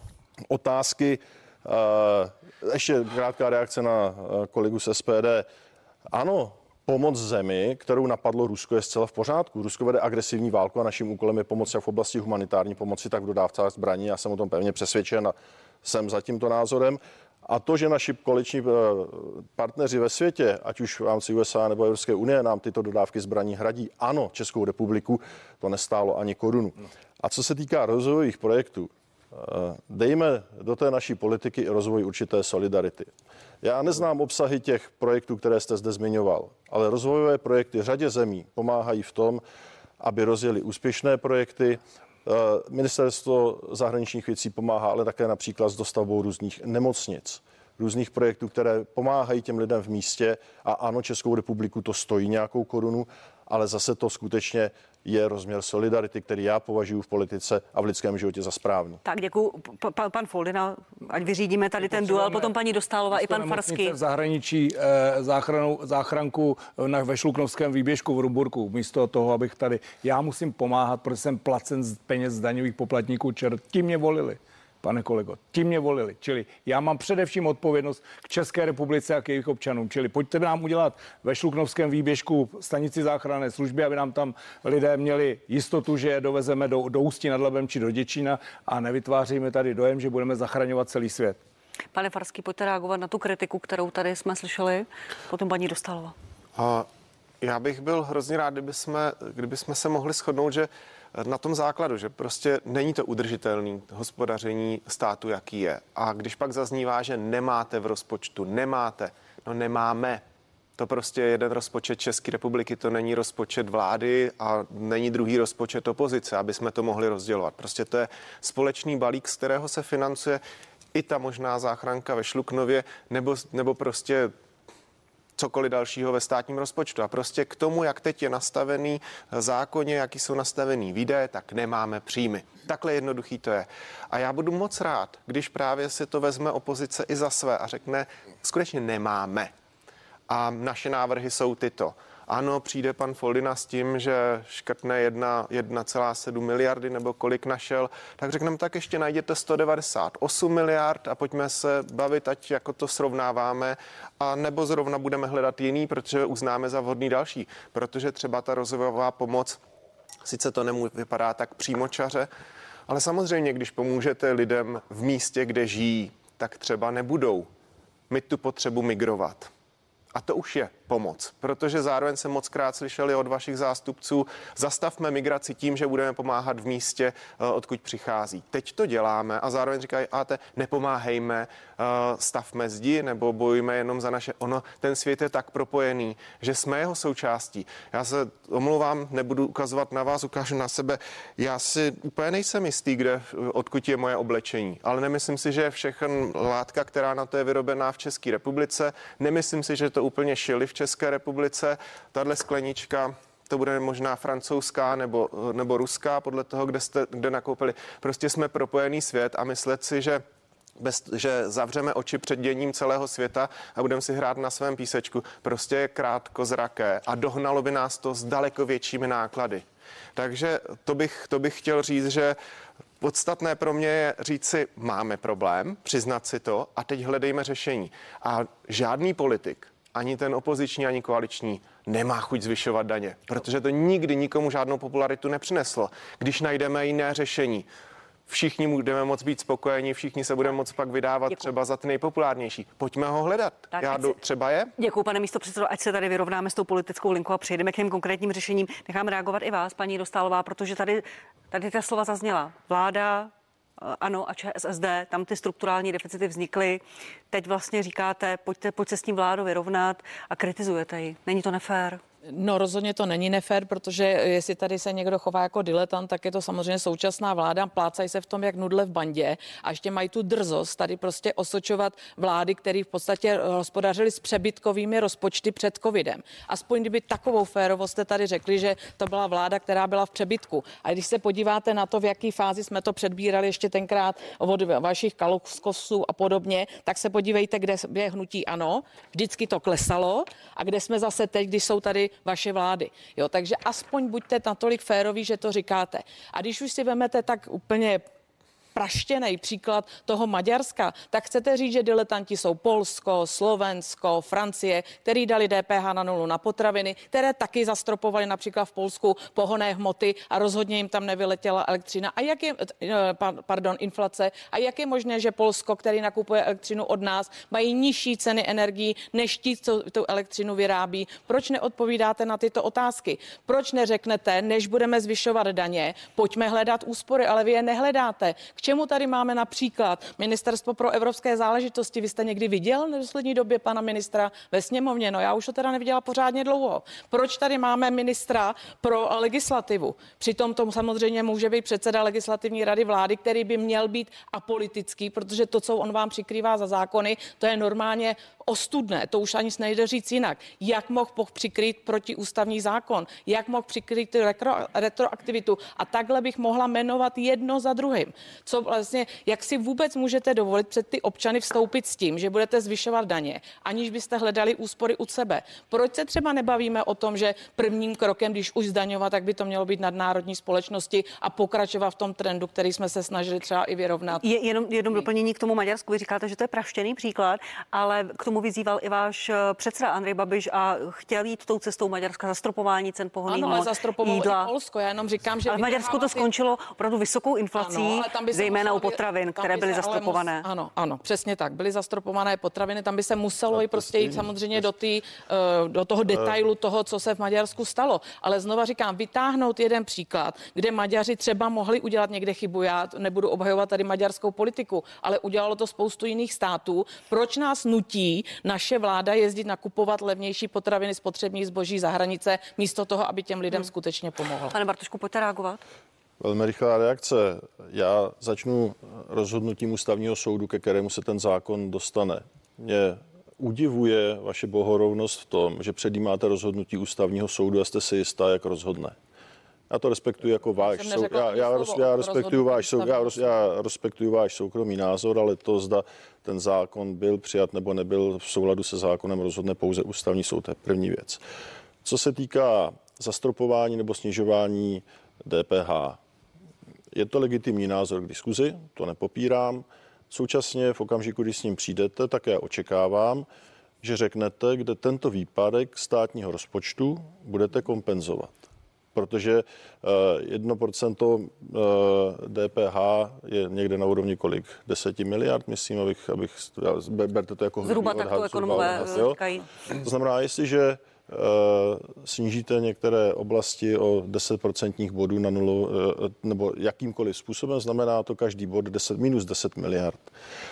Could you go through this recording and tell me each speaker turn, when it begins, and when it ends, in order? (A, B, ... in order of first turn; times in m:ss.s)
0:00.5-0:05.5 A
0:06.1-0:39.4 A
0:40.0-0:59.0 A
0:59.0-1:04.0 B
1:01.8-1:02.6 C
1:03.1-1:31.4 C
1:31.9-1:36.1 B
1:36.6-1:36.9 D
1:37.4-1:50.2 D
1:50.8-2:00.4 D
2:00.9-2:04.3 D
2:05.4-2:19.5 D
2:20.3-2:39.6 D
2:40.2-2:42.3 D
2:42.9-2:47.5 D
2:48.1-2:49.5 D
2:50.1-3:30.2 D
3:30.8-3:39.6 D
3:40.2-3:42.4 D
3:43.0-3:57.7 D
3:58.3-4:04.7 D
4:03.8-4:04.2 B
4:04.8-4:22.0 B
4:22.3-4:58.0 E
4:58.8-6:14.2 E
6:14.2-6:24.5 B
6:23.3-6:26.3 E
6:25.5-6:30.5 B
6:27.6-6:54.6 E
6:33.5-6:34.7 A
6:54.5-6:55.6 B
6:56.2-7:09.0 A
7:09.7-7:21.2 A
7:10.6-7:13.4 E
7:21.8-7:26.0 A
7:26.9-7:33.3 A
7:33.8-7:38.4 A
7:39.0-7:49.2 A
7:47.6-7:49.5 B
7:49.7-8:00.1 A